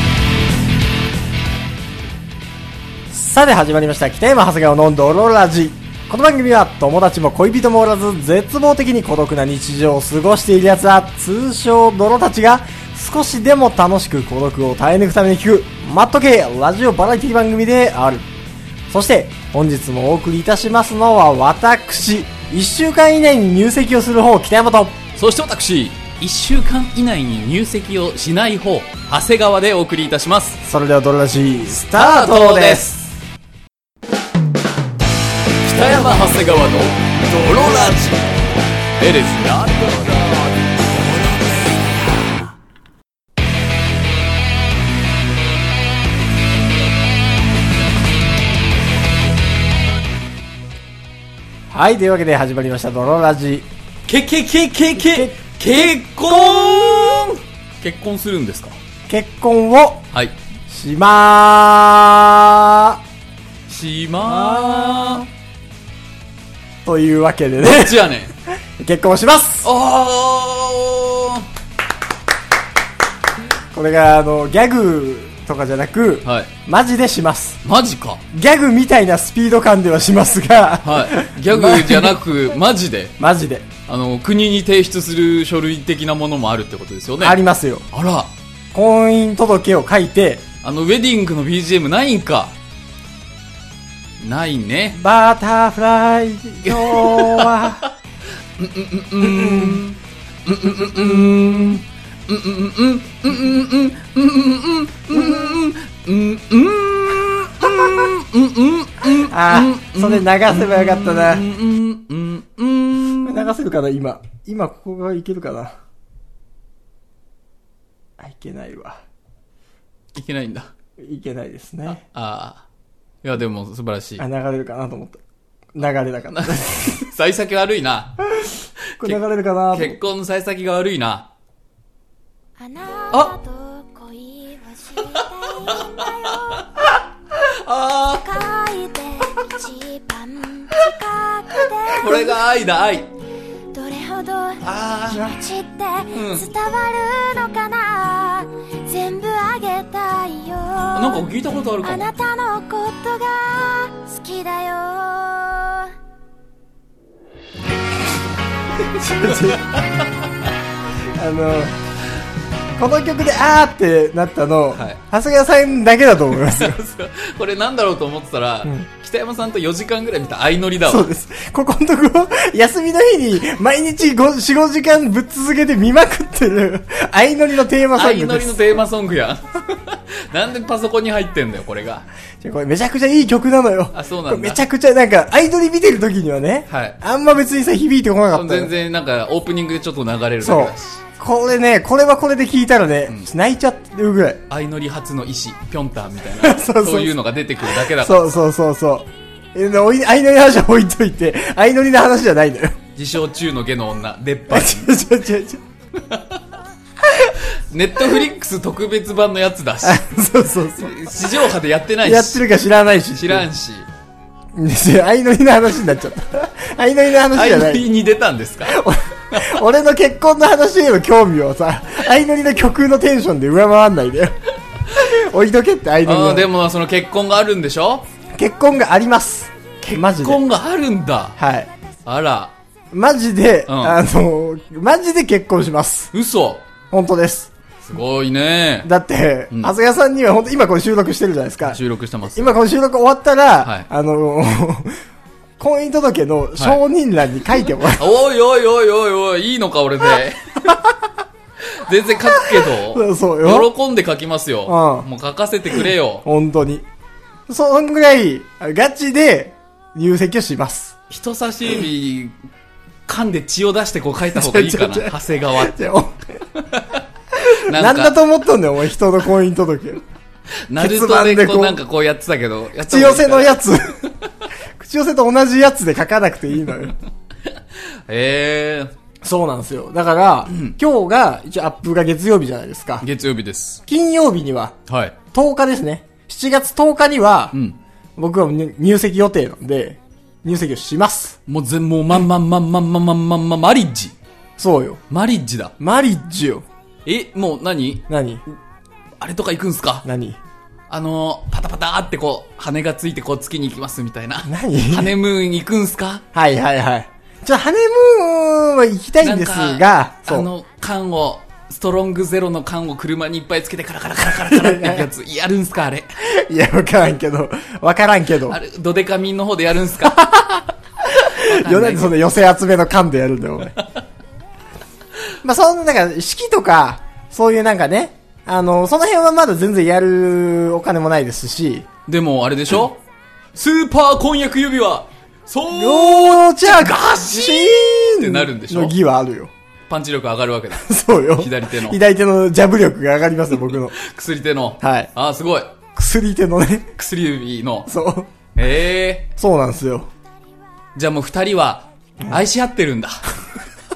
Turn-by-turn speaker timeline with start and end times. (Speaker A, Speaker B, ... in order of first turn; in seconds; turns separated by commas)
Speaker A: 3.1-18.3, Speaker A: 18.9-25.0, Speaker B: 25.2-30.6, Speaker A: 30.6-33.0, Speaker B: 31.9-33.0, Speaker B: 35.6-42.5, Speaker A: 51.7-53.7, Speaker B: 54.1-58.8, Speaker A: 55.0-55.4, Speaker A: 56.5-57.2, Speaker A: 59.1-60.0, Speaker A: 60.7-63.0, Speaker B: 63.7-65.2, Speaker A: 64.2-65.3, Speaker A: 66.8-68.0, Speaker B: 67.6-68.3, Speaker A: 68.8-69.7, Speaker B: 69.6-71.5, Speaker A: 73.7-77.6, Speaker B: 77.6-78.2, Speaker A: 78.3-82.1, Speaker B: 80.8-83.2, Speaker A: 83.2-83.7, Speaker B: 83.9-87.4, Speaker A: 87.2-87.9, Speaker B: 87.9-88.3, Speaker A: 88.7-90.4, Speaker B: 90.6-92.5, Speaker B: 94.2-95.0, Speaker A: 95.0-97.9, Speaker B: 96.7-97.9, Speaker B: 98.6-113.5, Speaker A: 99.2-99.8, Speaker A: 105.1-105.6, Speaker A: 109.2-111.5, Speaker A: 113.2-115.8, Speaker A: 118.2-119.0, Speaker B: 120.1-120.7, Speaker A: 121.0-122.0, Speaker B: 122.0-122.6, Speaker B: 123.2-124.2, Speaker A: 124.2-125.2, Speaker A: 125.8-127.0, Speaker B: 126.3-128.3, Speaker A: 129.0-130.0, Speaker B: 129.7-131.3, Speaker C: 132.6-136.7, Speaker B: 137.4-138.2, Speaker C: 138.1-142.3, Speaker B: 141.9-143.1, Speaker C: 143.7-155.9, Speaker B: 144.6-145.3, Speaker B: 146.1-146.5, Speaker B: 150.9-152.1, Speaker A: 159.0-159.8, Speaker B: 159.1-159.8, Speaker A: 161.2-161.8, Speaker A: 162.8-166.8, Speaker B: 164.7-165.0, Speaker B: 166.4-171.1, Speaker A: 170.8-178.6, Speaker B: 177.9-182.1, Speaker A: 182.4-188.7, Speaker B: 183.9-184.6, Speaker B: 186.7-187.0, Speaker B: 188.3-191.0, Speaker A: 190.4-194.4, Speaker B: 194.5-198.4, Speaker A: 196.4-197.1, Speaker A: 197.7-202.8, Speaker B: 203.0-204.9, Speaker A: 204.5-205.6, Speaker B: 206.0-206.4, Speaker B: 207.7-210.1, Speaker A: 209.8-211.1, Speaker B: 210.8-212.4, Speaker A: 212.0-213.4, Speaker B: 213.2-213.9, Speaker A: 214.6-217.8, Speaker B: 217.3-218.8, Speaker A: 218.7-224.3, Speaker B: 219.3-219.6, Speaker A: 224.9-226.5, Speaker B: 226.0-228.1, Speaker A: 228.4-230.4, Speaker B: 229.8-231.4, Speaker A: 231.4-231.7, Speaker B: 232.1-232.5, Speaker A: 232.9-236.1, Speaker B: 233.7-234.0, Speaker B: 236.1-236.6, Speaker A: 236.9-237.5, Speaker B: 237.8-238.9, Speaker A: 238.8-241.8, Speaker B: 241.7-242.6, Speaker A: 242.3-245.0, Speaker A: 245.6-248.1, Speaker B: 247.8-250.7, Speaker B: 251.7-256.2, Speaker A: 252.3-253.7, Speaker A: 254.7-255.1, Speaker A: 255.8-256.9, Speaker A: 257.5-260.9, Speaker B: 261.1-262.4, Speaker B: 263.1-265.8, Speaker A: 264.4-266.2, Speaker A: 267.4-270.0, Speaker B: 267.7-268.2, Speaker B: 270.7-273.8, Speaker A: 270.8-271.8, Speaker A: 272.8-274.0, Speaker A: 274.8-277.0, Speaker B: 278.1-278.9, Speaker A: 279.2-283.1, Speaker B: 280.5-280.8, Speaker B: 283.0-283.8, Speaker A: 283.9-284.7, Speaker B: 284.9-285.2, Speaker A: 285.3-287.6, Speaker A: 288.2-291.4, Speaker B: 291.5-294.1, Speaker A: 294.6-295.0, Speaker B: 295.1-295.8, Speaker A: 295.8-296.6, Speaker B: 297.1-298.1, Speaker A: 298.1-298.4, Speaker B: 299.2-300.1, Speaker A: 300.1-300.4, Speaker B: 300.9-306.2, Speaker A: 304.5-305.1, Speaker A: 306.3-310.5, Speaker B: 309.2-316.1, Speaker A: 314.4-315.1, Speaker A: 316.2-318.6, Speaker B: 318.5-320.2, Speaker A: 320.0-323.8, Speaker B: 321.3-322.1, Speaker A: 325.4-331.9, Speaker B: 332.1-333.0, Speaker B: 333.6-338.9, Speaker A: 335.7-339.5, Speaker B: 339.9-342.0, Speaker A: 340.8-344.0, Speaker B: 343.6-345.7, Speaker A: 344.8-345.1, Speaker A: 346.0-346.9, Speaker B: 346.9-347.9, Speaker A: 347.9-348.3, Speaker B: 348.6-349.3, Speaker A: 349.4-350.1, Speaker B: 350.9-353.3